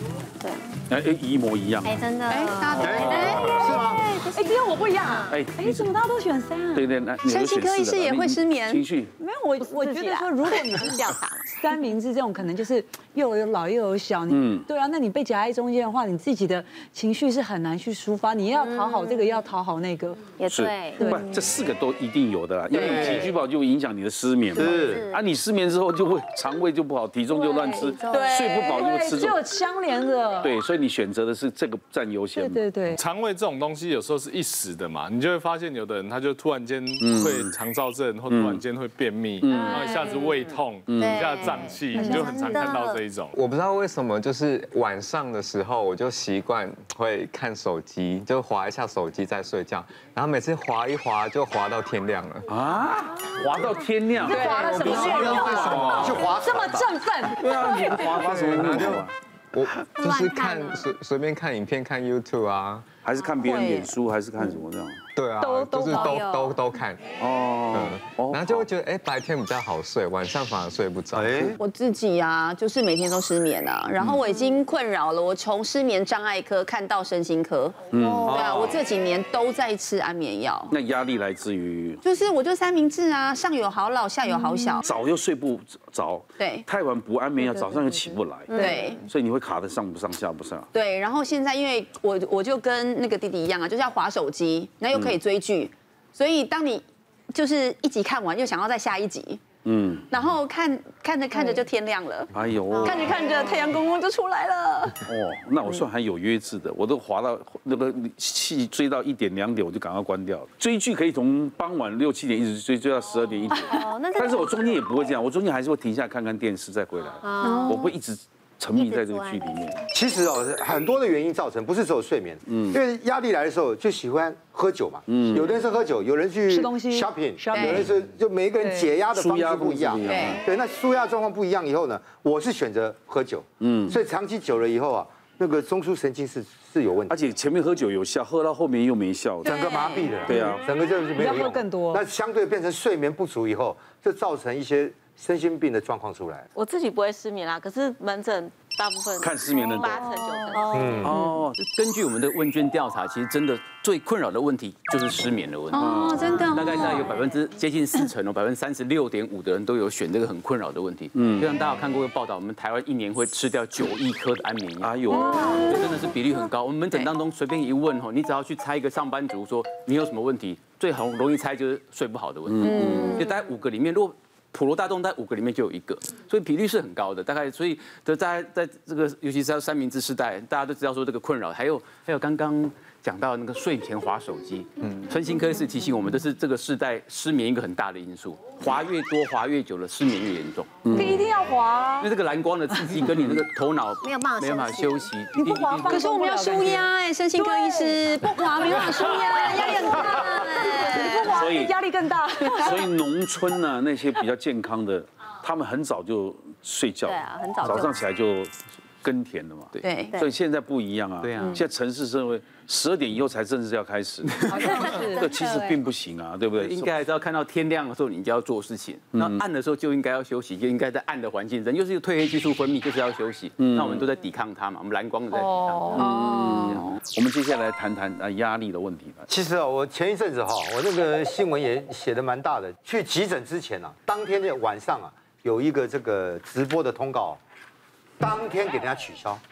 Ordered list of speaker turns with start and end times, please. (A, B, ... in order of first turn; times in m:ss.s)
0:00.9-0:02.0 A
0:01.8-0:05.4 B
0:02.2-0:03.5 C
0:02.7-0:03.7 A
0:02.8-0:04.1 D
0:03.4-0:06.8 E
0:05.3-0:06.0 A
0:06.7-0:09.1 A
0:07.2-0:08.9 C
0:09.2-0:20.3 E
0:09.4-0:11.6 C
0:14.3-0:14.7 A
0:18.6-0:19.3 B
0:20.3-0:21.0 B
0:20.5-0:29.4 A
0:21.0-0:21.2 E
0:22.7-0:23.3 D
0:24.5-0:25.0 D
0:24.6-0:25.1 B
0:27.3-0:30.5 E
0:27.8-0:28.5 B
0:30.4-0:32.7 A
0:32.3-0:33.0 E
0:33.0-0:43.3 F
0:37.0-0:37.6 A
0:38.3-0:38.6 A
0:39.4-0:39.9 A
0:39.6-0:40.2 E
0:40.9-0:41.3 A
0:40.9-0:43.0 B
0:41.9-0:42.6 E
0:43.3-0:52.5 G
0:52.5-0:56.1 A
0:54.2-0:58.1 E
0:54.2-0:57.0 D
0:57.3-0:59.1 A
0:58.2-1:02.8 G
0:59.9-1:00.8 B
1:03.0-1:05.0 A
1:03.4-1:04.0 C
1:05.1-1:07.0 G
1:05.4-1:06.2 E
1:06.0-1:06.6 B
1:07.2-1:08.7 A
1:07.7-1:11.6 G
1:11.1-1:11.6 D
1:11.6-1:17.8 C
1:17.9-1:18.5 A
1:18.0-1:18.3 B
1:18.2-1:18.8 D
1:18.3-1:20.8 C
1:20.7-1:22.0 A
1:22.0-1:24.8 C
1:24.2-1:24.8 E
1:24.8-1:30.7 A
1:26.4-1:26.7 C
1:27.4-1:28.8 E
1:28.6-1:29.0 C
1:30.7-1:39.4 C
1:39.6-1:40.0 A
1:40.1-1:45.1 C
1:42.3-1:43.2 A
1:42.8-1:43.4 B
1:45.1-1:59.8 A
1:53.6-1:54.7 B
1:57.2-1:57.9 B
1:57.4-1:57.8 E
1:58.8-1:59.5 B
1:59.9-2:17.2 D
2:02.5-2:02.8 A
2:05.1-2:05.6 A
2:06.5-2:07.9 E
2:07.5-2:07.8 C
2:08.6-2:09.0 E
2:09.1-2:10.4 A
2:10.0-2:10.4 C
2:13.6-2:14.0 A
2:17.1-2:19.6 A
2:19.4-2:26.5 D
2:19.7-2:20.4 H
2:20.2-2:20.6 A
2:21.1-2:22.0 E
2:26.5-2:31.2 H
2:29.2-2:30.2 A
2:30.3-2:30.7 E
2:30.7-2:31.2 D
2:31.0-2:31.6 A
2:31.5-2:35.9 I
2:35.7-2:36.8 C
2:35.8-2:36.4 A
2:36.3-2:37.1 B
2:36.5-2:45.1 I
2:41.1-2:41.5 A
2:44.8-2:45.9 A
2:45.2-2:45.7 B
2:45.7-3:11.0 I
2:52.5-2:52.8 A
2:52.6-2:53.0 C
3:10.8-3:11.2 A
3:10.9-3:12.1 E
3:12.0-3:15.9 I
3:14.0-3:15.1 B
3:15.3-3:23.0 E
3:15.9-3:21.2 C
3:18.8-3:19.8 A
3:20.9-3:21.8 A
3:22.4-3:37.0 A
3:27.0-3:28.0 B
3:29.8-3:30.2 C
3:31.2-3:31.6 I
3:34.3-3:34.9 I
3:34.5-3:35.8 E
3:36.6-3:46.1 I
3:39.1-3:39.4 A
3:43.6-3:44.1 A
3:45.3-3:46.0 E
3:45.9-3:49.3 A
3:49.3-3:57.4 D
3:58.2-3:59.4 D